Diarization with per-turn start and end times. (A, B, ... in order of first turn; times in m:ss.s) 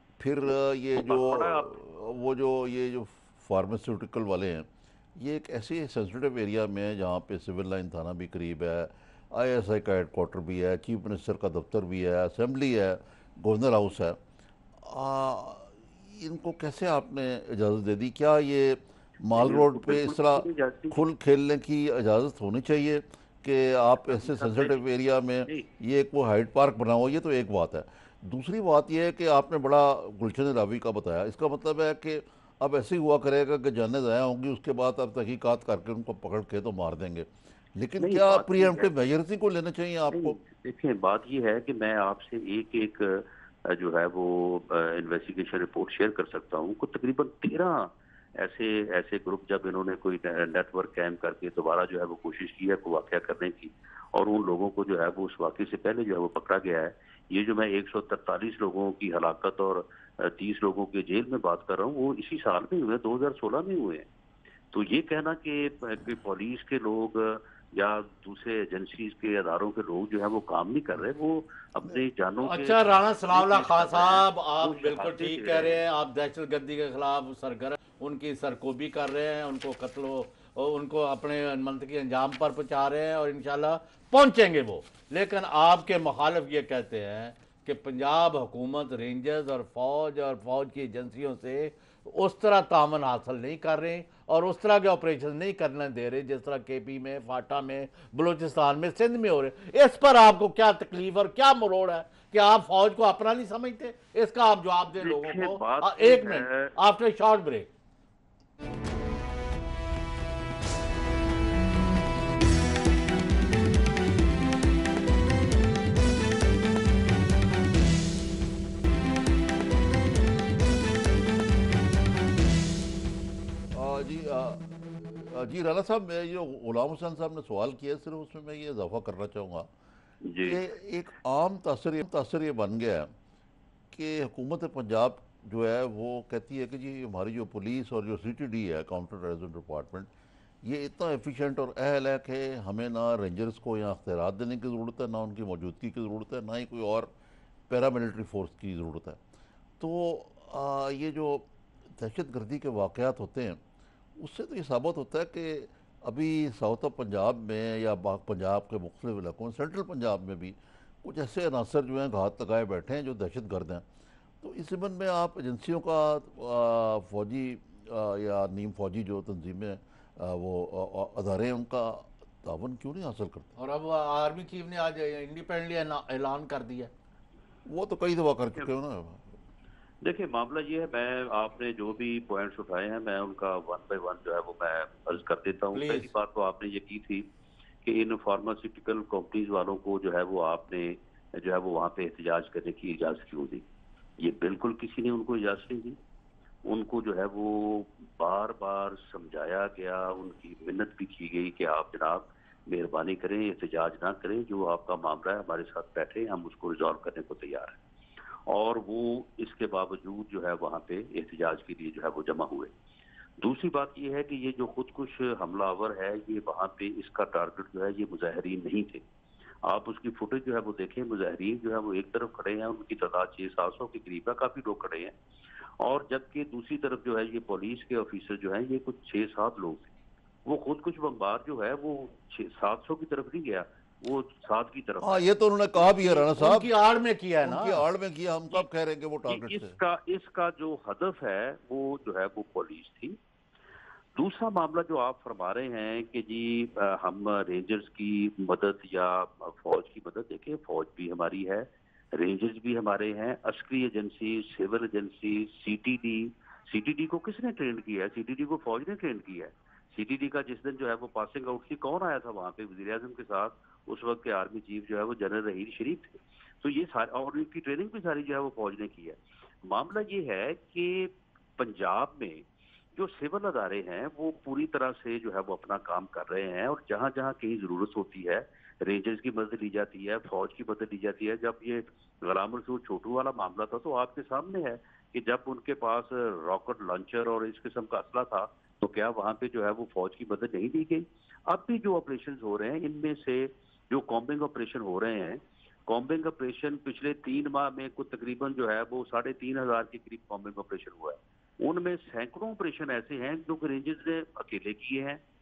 0:00.2-0:14.2 A
0:01.0-0:01.7 B
0:14.8-0:40.4 A
0:19.4-0:21.0 B
0:24.1-0:24.8 B
0:38.0-0:38.9 B
0:40.1-1:04.1 B
1:04.7-1:15.8 B
1:12.4-1:47.7 C
1:45.0-1:46.7 B
2:03.7-2:09.7 A
2:10.2-2:10.6 B
2:10.4-2:13.1 A
2:13.9-2:20.1 A
2:20.6-2:27.1 A
2:27.7-2:29.2 A
2:29.8-2:33.6 A
2:34.2-2:43.8 A
2:44.4-2:53.5 A
2:53.6-2:56.9 C
2:57.7-2:59.3 A
3:00.0-3:07.2 B
3:05.7-3:06.1 C
3:07.8-3:13.6 B
3:14.2-3:16.0 B
3:16.7-3:27.8 B
3:28.5-3:32.7 B
3:33.4-3:39.0 B
3:39.7-3:45.1 B
3:45.8-3:49.9 B
3:50.5-3:56.1 B
3:55.0-3:56.7 A
3:56.1-3:57.8 C
3:57.4-3:59.8 A
3:59.3-4:03.2 B
4:04.2-4:32.4 B
4:33.0-5:05.2 B